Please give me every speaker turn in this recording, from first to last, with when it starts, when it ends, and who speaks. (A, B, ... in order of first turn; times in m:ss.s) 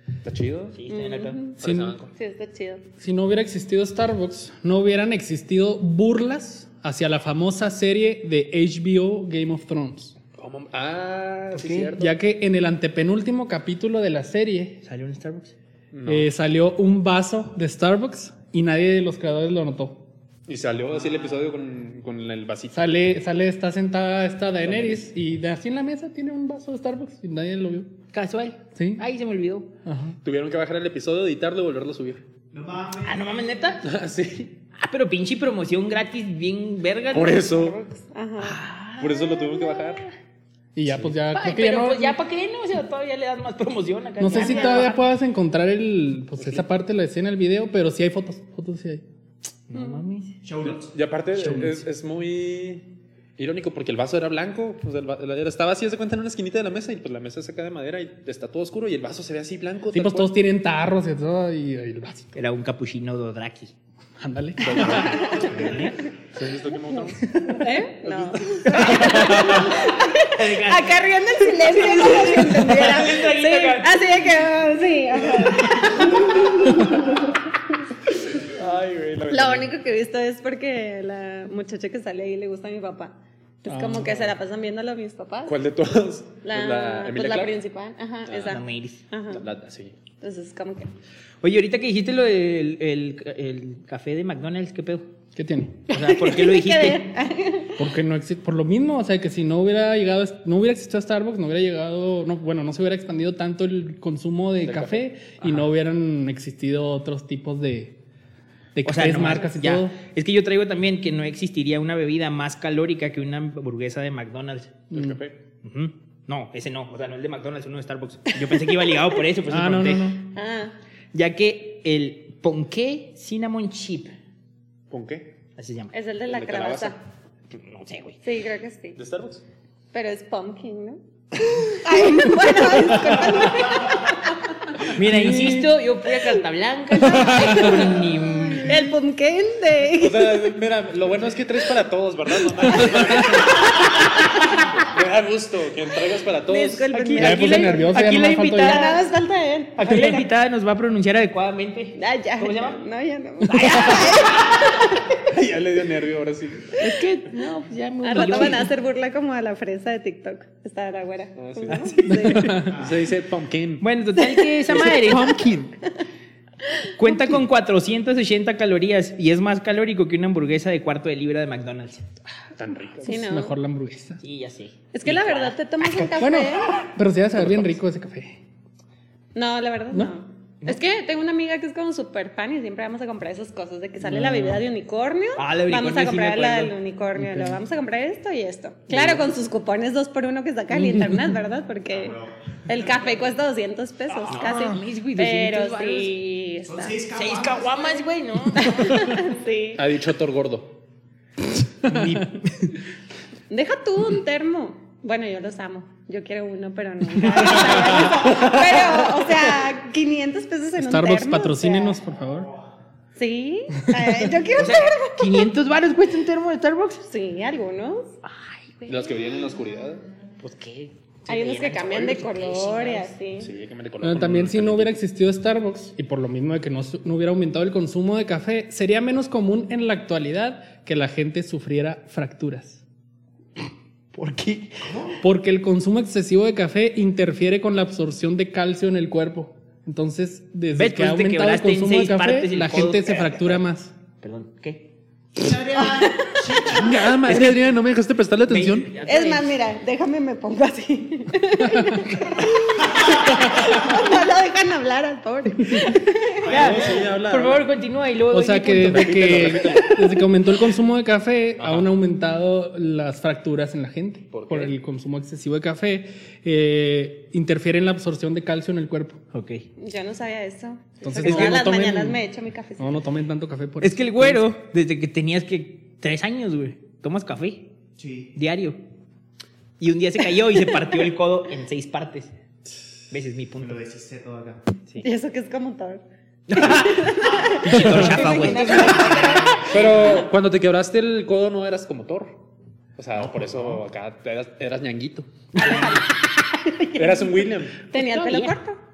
0:00.2-0:00.8 A
0:00.7-0:01.4 B
0:00.9-0:01.6 C
0:01.6-0:02.0 D
0:01.6-0:02.1 A
0:02.1-0:02.8 C
0:03.0-0:10.1 D
0:10.4-0:12.1 A
0:11.5-0:11.9 B
0:12.0-0:14.8 D
0:14.8-0:15.6 B
0:15.9-0:16.3 A
0:16.0-0:20.0 D
0:20.5-0:23.0 A
0:22.7-0:27.9 D
0:24.6-0:25.0 A
0:28.1-0:29.7 B
0:28.7-0:29.0 D
0:29.8-0:30.2 D
0:30.2-0:32.2 A
0:32.5-0:33.5 E
0:33.0-0:33.9 B
0:33.8-0:34.5 A
0:34.7-0:37.8 B
0:37.1-0:37.8 A
0:38.1-0:38.6 C
0:38.4-0:40.1 B
0:39.0-0:40.0 A
0:40.7-0:42.2 D
0:41.3-0:45.0 B
0:44.2-0:49.0 D
0:44.3-0:44.9 C
0:46.4-0:46.6 A
0:49.7-0:50.4 B
0:49.7-0:50.0 C
0:50.4-0:50.9 E
0:50.6-0:52.8 A
0:51.4-0:51.7 D
0:53.4-1:00.3 A
0:59.9-1:02.3 D
1:02.3-1:03.7 B
1:04.2-1:05.2 D
1:04.6-1:07.3 A
1:04.7-1:05.9 E
1:04.9-1:05.9 B
1:05.2-1:05.4 C
1:07.3-1:07.7 B
1:07.5-1:17.6 C
1:08.0-1:09.8 A
1:08.6-1:14.0 B
1:15.4-1:15.7 B
1:18.4-1:19.7 A
1:19.3-1:25.6 C
1:23.7-1:24.2 D
1:25.4-1:27.6 A
1:26.4-1:29.4 C
1:28.3-1:28.6 A
1:28.5-1:29.0 B
1:29.3-1:30.0 A
1:30.2-1:30.9 C
1:31.4-1:35.1 B
1:35.3-1:35.9 D
1:35.9-1:37.1 B
1:36.0-1:37.8 C
1:37.8-1:48.0 D
1:44.6-1:45.0 A
1:48.7-1:49.9 D
1:48.8-1:54.8 B
1:54.9-1:55.2 D
1:54.9-1:55.4 A
1:55.6-2:00.2 B
1:59.5-2:00.2 D
2:00.3-2:00.7 C
2:01.1-2:04.1 B
2:04.9-2:05.3 A
2:05.6-2:05.9 B
2:05.9-2:07.0 C
2:06.3-2:06.9 A
2:07.5-2:08.2 B
2:08.2-2:09.0 C
2:09.0-2:09.4 A
2:09.9-2:11.0 C
2:11.6-2:14.7 C
2:14.9-2:18.8 B
2:15.0-2:15.7 D
2:17.1-2:20.5 C
2:17.2-2:17.6 D
2:20.0-2:26.9 A
2:22.8-2:23.2 D
2:26.5-2:28.0 C
2:26.9-2:29.0 B
2:27.2-2:28.9 D
2:28.6-2:30.3 C
2:29.8-2:32.8 B
2:32.0-2:35.2 C
2:33.4-2:34.6 B
2:35.2-2:36.8 A
2:36.8-2:38.7 B
2:38.0-2:42.6 C
2:41.4-2:43.8 A
2:41.7-2:42.6 B
2:42.1-2:42.8 D
2:42.6-2:43.0 E
2:43.8-2:45.4 B
2:44.7-2:45.7 A
2:46.9-2:52.1 B
2:52.6-2:53.1 A
2:53.0-2:53.6 C
2:53.0-2:54.2 D
2:54.2-2:55.6 B
2:54.9-2:56.8 C
2:56.0-2:58.4 D
2:57.4-2:57.7 A
2:59.3-3:17.0 C
3:04.1-3:04.6 D
3:05.4-3:06.7 B
3:08.9-3:09.3 B
3:11.9-3:13.3 E
3:14.2-3:16.2 B
3:16.6-3:17.9 E
3:17.1-3:19.1 B
3:18.5-3:19.8 C
3:19.7-3:20.7 A
3:21.8-3:22.7 B
3:21.8-3:22.3 D
3:23.5-3:32.0 C
3:27.2-3:28.3 D
3:28.3-3:28.8 A
3:30.8-3:32.5 D
3:33.2-3:35.5 C
3:34.5-3:37.0 B
3:37.1-3:38.1 C
3:38.2-3:39.1 B
3:38.8-3:40.0 A
3:40.4-3:43.1 B
3:41.3-3:43.5 C
3:43.4-3:45.0 A
3:44.0-3:52.8 D
3:54.1-3:54.9 B
3:54.8-3:55.2 E
3:55.2-4:03.9 D
4:00.7-4:03.6 B
4:04.2-4:04.9 B
4:05.4-4:07.2 E
4:06.7-4:08.9 A
4:08.5-4:09.5 B
4:09.0-4:16.4 C
4:11.7-4:12.0 D
4:12.8-4:13.2 E
4:16.4-4:17.0 E
4:16.4-4:17.7 A
4:16.4-4:19.6 B
4:18.3-4:29.2 D
4:18.8-4:20.2 A
4:21.6-4:21.9 A
4:24.3-4:24.7 A
4:29.3-4:29.6 B
4:29.8-4:33.0 C
4:31.0-4:32.2 D
4:32.8-4:34.4 D
4:33.8-4:37.7 B
4:38.0-4:38.3 E
4:38.3-4:38.8 B
4:39.8-4:42.3 B
4:43.1-4:43.8 B
4:43.6-4:44.6 E
4:45.0-4:46.0 C
4:46.5-4:50.0 B
4:46.6-4:49.8 C
4:47.4-4:49.8 E
4:47.8-4:48.4 A
4:49.6-4:52.4 A
4:53.0-4:55.3 A
4:53.2-4:53.8 E
4:55.5-4:57.1 B
4:55.6-4:56.0 C
4:55.6-4:56.0 E
4:56.9-4:57.8 A
4:57.9-4:58.6 B
4:57.9-4:58.8 C